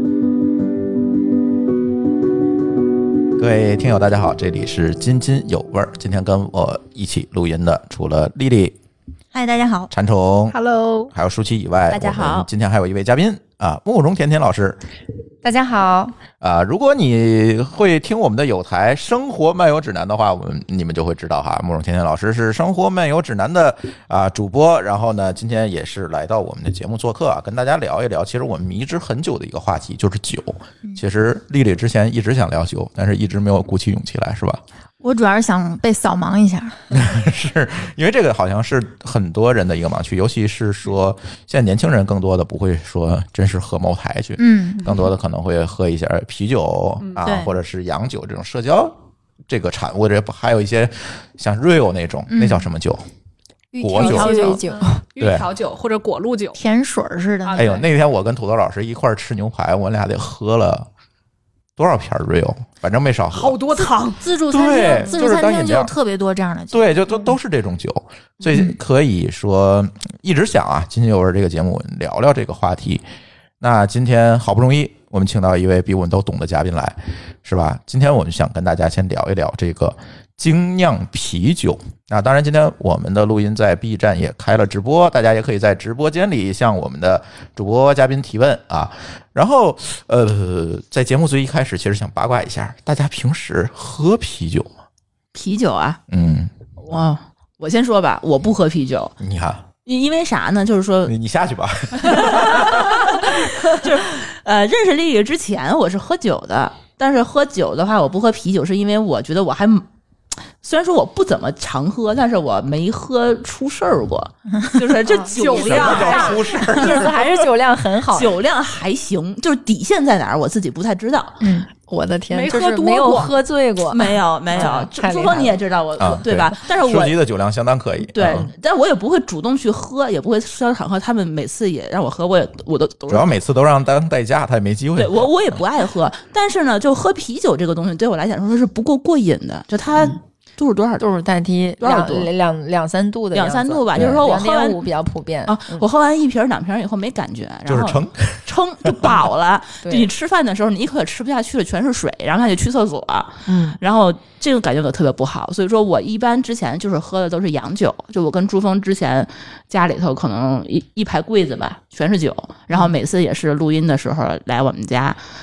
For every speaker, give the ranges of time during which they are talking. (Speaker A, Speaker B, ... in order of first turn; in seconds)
Speaker A: 3.4-8.8, 9.9-10.6, 11.1-14.8, 16.4-34.6, 36.9-49.0, 49.5-53.0, 53.8-54.3, 55.2-55.5, 57.5-60.9, 61.8-63.6, 64.5-65.9, 66.7-73.0, 73.6-94.7, 96.1-96.5, 99.2-99.7, 101.1-103.0, 115.5-117.4, 126.0-128.5, 133.1-135.6, 143.9-144.2, 147.7-149.2
Speaker B: 9.3-9.9, 35.0-36.9, 44.4-45.0, 47.2-47.5, 52.3-52.7, 54.0-54.6, 56.5-57.8, 64.2-66.9
Speaker C: 10.5-11.1, 47.0-47.3, 54.2-56.6, 57.5-57.8, 63.3-64.3, 115.2-116.5, 122.3-123.3
Speaker D: 11.9-12.4, 95.3-96.0, 96.8-99.1, 99.8-101.1, 102.1-109.8, 110.6-117.1, 118.1-121.4, 123.9-127.2, 128.1-133.3, 134.9-141.0, 141.8-142.3, 143.3-144.8, 145.4-165.2
Speaker E: 15.4-16.2, 53.7-55.0, 115.8-118.3, 121.8-125.6, 141.0-145.8, 149.8-150.1, 153.4-153.8